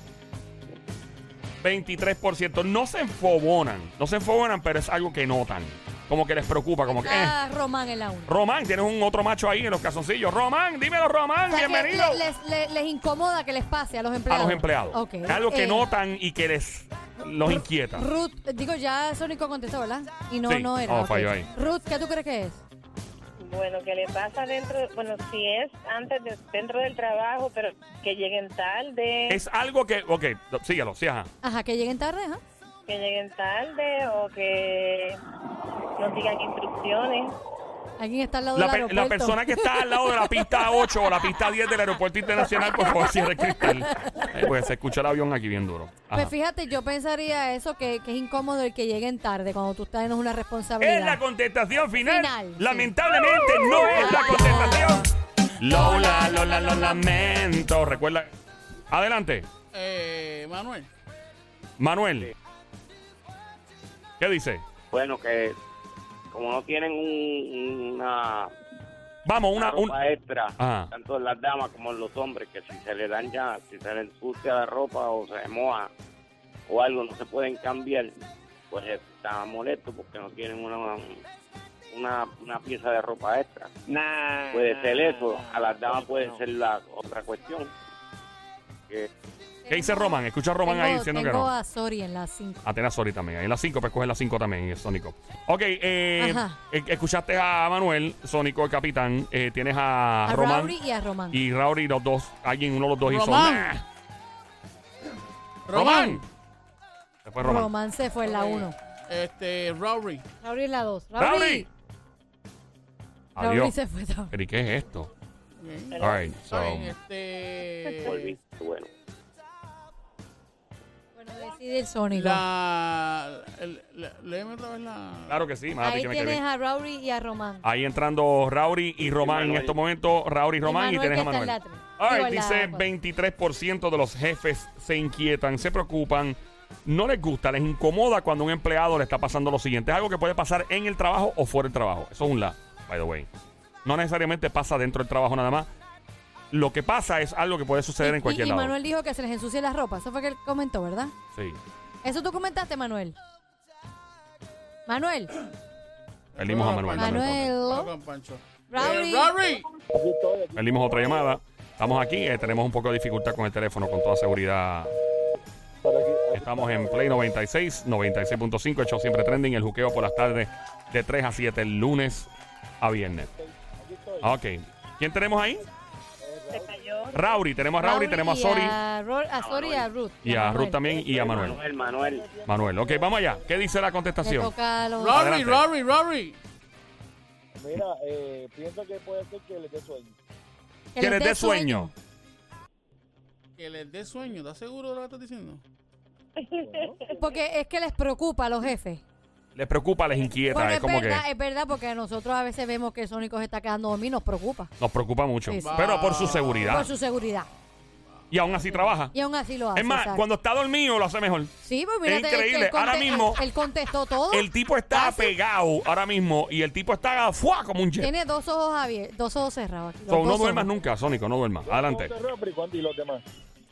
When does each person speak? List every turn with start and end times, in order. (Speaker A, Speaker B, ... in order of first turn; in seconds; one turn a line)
Speaker A: 1.6-7.3
Speaker B: 6.9-8.3
Speaker A: 8.3-12.2
Speaker B: 11.5-15.9
Speaker A: 14.3-18.1
Speaker B: 17.9-22.6
Speaker A: 20.5-21.5
Speaker C: 23.4-29.4
Speaker A: 29.3-31.3
Speaker B: 31.4-32.4
Speaker C: 32.9-35.2
Speaker C: 36.0-37.3
Speaker B: 38.0-40.9
Speaker A: 38.5-46.3
Speaker B: 42.6-44.3
Speaker B: 46.1-51.2
Speaker A: 50.8-58.3
Speaker B: 52.0-52.9
Speaker B: 53.7-55.0
Speaker B: 55.7-57.0
Speaker A: 58.9-59.5
Speaker D: 59.7-60.9
Speaker A: 61.8-62.3
Speaker A: 64.2-64.6
Speaker E: 64.9-65.5
Speaker E: 66.3-68.5
Speaker A: 69.2-70.0
Speaker E: 69.5-75.9
Speaker A: 70.6-70.9
Speaker E: 76.7-78.1
Speaker E: 78.7-81.2
Speaker E: 81.9-83.7
Speaker F: 83.9-86.4
Speaker E: 84.5-87.7
Speaker B: 89.6-92.6
Speaker A: 89.7-91.5
Speaker A: 92.6-100.8
Speaker B: 96.2-96.6
Speaker B: 100.2-101.4
Speaker A: 101.3-103.8
Speaker D: 103.0-103.7
Speaker D: 105.7-106.2
Speaker A: 105.7-106.2
Speaker A: 107.2-107.7
Speaker B: 107.4-108.8
Speaker D: 108.2-110.2
Speaker B: 110.4-111.7
Speaker A: 111.2-111.7
Speaker A: 113.3-113.7
Speaker B: 113.4-114.3
Speaker A: 114.3-115.1
Speaker D: 115.6-118.3
Speaker C: 115.9-116.3
Speaker A: 116.0-116.9
Speaker E: 118.0-118.9
Speaker B: 121.2-122.4
Speaker D: 122.1-125.4
Speaker A: 125.3-126.4
Speaker B: 125.8-127.7
Speaker A: 127.6-143.3
Speaker E: 129.0-129.8
Speaker B: 130.6-132.9
Speaker A: 143.8-145.7
Speaker A: 146.5-148.7
Speaker B: 148.0-151.1
Speaker A: 151.3-151.6
Speaker B: 152.0-153.2
Speaker B: 154.9-155.3
Speaker D: 156.3-159.7
Speaker A: 156.3-157.5
Speaker B: 156.9-157.9
Speaker B: 158.7-159.3
Speaker G: 159.9-161.2
Speaker A: 160.5-164.9
Speaker G: 165.8-167.2
Speaker A: 166.3-173.3
Speaker G: 173.4-174.3
Speaker A: 174.2-175.6
Speaker G: 176.2-176.8
Speaker C: 176.5-177.3
Speaker A: 177.1-178.8
Speaker B: 177.8-180.8
Speaker E: 179.4-179.9
Speaker A: 180.2-181.6
Speaker G: 180.8-183.7
Speaker E: 181.1-182.3
Speaker A: 182.4-184.5
Speaker B: 184.2-185.2
Speaker D: 185.0-186.4
Speaker A: 185.1-185.6
Speaker G: 187.6-190.2
Speaker B: 190.9-191.9
Speaker A: 191.0-191.9
Speaker D: 193.6-195.6
Speaker C: 196.4-197.2
Speaker G: 196.6-197.0
Speaker B: 197.1-199.0
Speaker A: 199.5-201.2
Speaker B: 200.5-204.7
Speaker A: 204.8-206.9
Speaker B: 205.4-205.8
Speaker D: 205.6-206.8
Speaker B: 206.5-207.5
Speaker A: 208.3-209.1
Speaker B: 209.1-210.2
Speaker A: 209.7-211.5
Speaker B: 211.6-215.3
Speaker A: 212.0-213.4
Speaker A: 214.3-218.1
Speaker B: 218.0-220.7
Speaker A: 220.1-222.1
Speaker G: 221.6-223.2